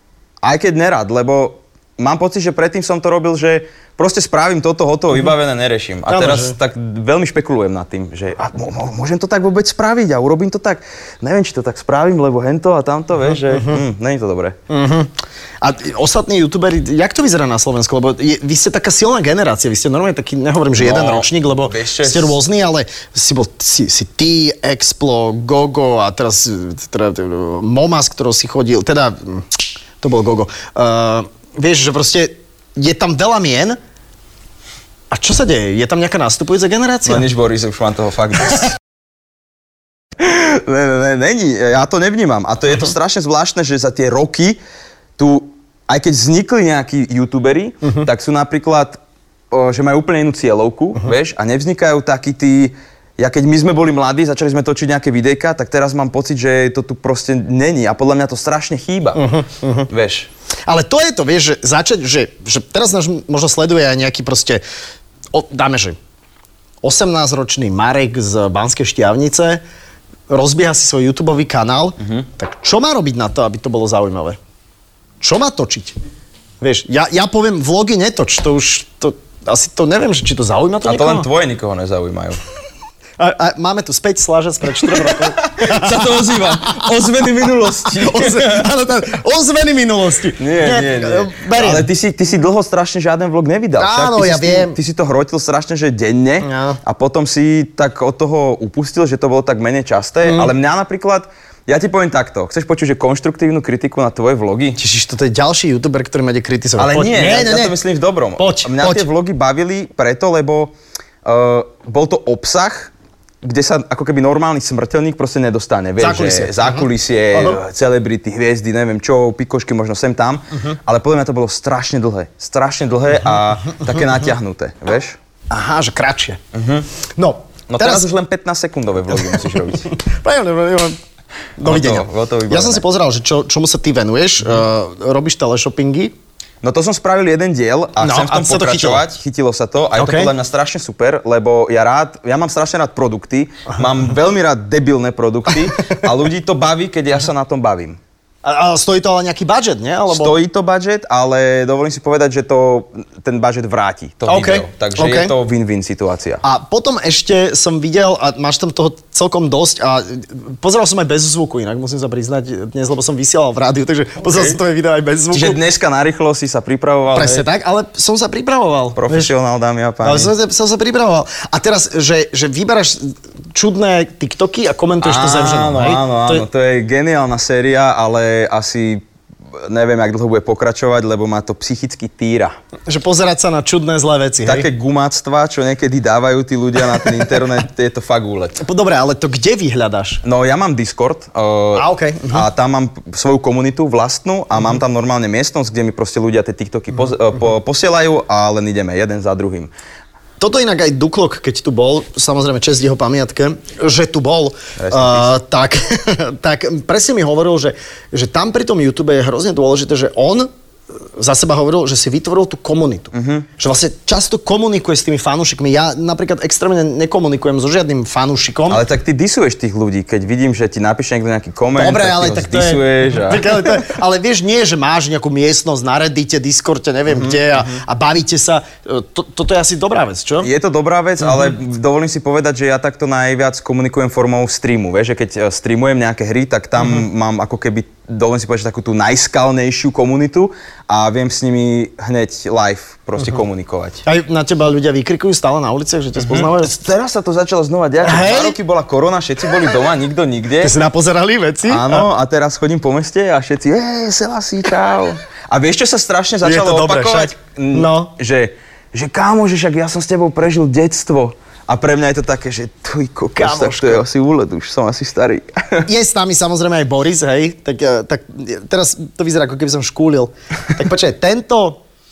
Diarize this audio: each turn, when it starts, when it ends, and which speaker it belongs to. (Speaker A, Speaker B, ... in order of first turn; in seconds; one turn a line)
Speaker A: 0.4-14.6
Speaker B: 6.1-6.5
Speaker B: 13.5-13.8
Speaker B: 14.7-29.5
Speaker A: 20.8-22.4
Speaker B: 30.0-33.8
Speaker B: 35.1-37.3
Speaker A: 37.0-38.8
Speaker A: 40.2-44.6
Speaker A: 45.2-49.0
Speaker A: 49.5-59.3
Speaker B: 59.1-59.9
Speaker A: 59.9-60.3
Speaker B: 60.7-64.6
Speaker B: 65.3-66.0
Speaker B: 66.8-69.6
Speaker B: 70.3-74.4
Speaker B: 75.2-76.0
Speaker B: 76.6-81.3
Speaker A: 80.8-82.4
Speaker B: 83.2-86.9
Speaker A: 84.8-88.7
Speaker B: 87.8-91.9
Speaker A: 90.4-104.8
Speaker B: 93.8-94.8
Speaker B: 96.4-96.8
Speaker B: 100.2-100.5
Speaker B: 104.8-107.8
Speaker A: 106.8-110.7
Speaker B: 108.4-109.0
Speaker A: 111.2-125.2
Speaker B: 116.0-117.6
Speaker B: 125.5-126.4
Speaker A: 126.5-126.8
Speaker B: 127.2-128.1
Speaker A: 127.7-129.9
Speaker B: 129.8-131.0
Speaker B: 131.6-136.1
Speaker A: 131.6-132.8
Speaker A: 136.6-148.0
Speaker B: 138.0-139.0
Speaker B: 140.0-140.3
Speaker B: 148.4-150.4
Speaker A: 150.1-156.4
Speaker B: 154.3-155.3
Speaker B: 156.4-165.6
Speaker A: 164.2-164.6
Speaker A: 165.3-167.5
Speaker B: 167.1-169.3
Speaker A: 168.9-170.3
Speaker B: 170.0-176.5
Speaker A: 175.0-182.5
Speaker B: 182.9-184.7
Speaker A: 184.4-188.6
Speaker B: 188.6-190.2
Speaker A: 190.2-199.7
Speaker B: 191.7-192.4
Speaker B: 200.4-210.5
Speaker A: 204.8-205.4
Speaker B: 211.2-218.8
Speaker A: 213.1-213.5
Speaker A: 218.7-223.8
Speaker B: 221.7-230.5
Speaker A: 227.1-227.4
Speaker A: 230.4-244.0
Speaker B: 244.0-246.7
Speaker A: 246.2-250.7
Speaker B: 248.0-248.6
Speaker B: 250.6-252.1
Speaker A: 251.7-265.9
Speaker B: 256.4-258.1
Speaker B: 263.4-264.0
Speaker B: 265.9-271.8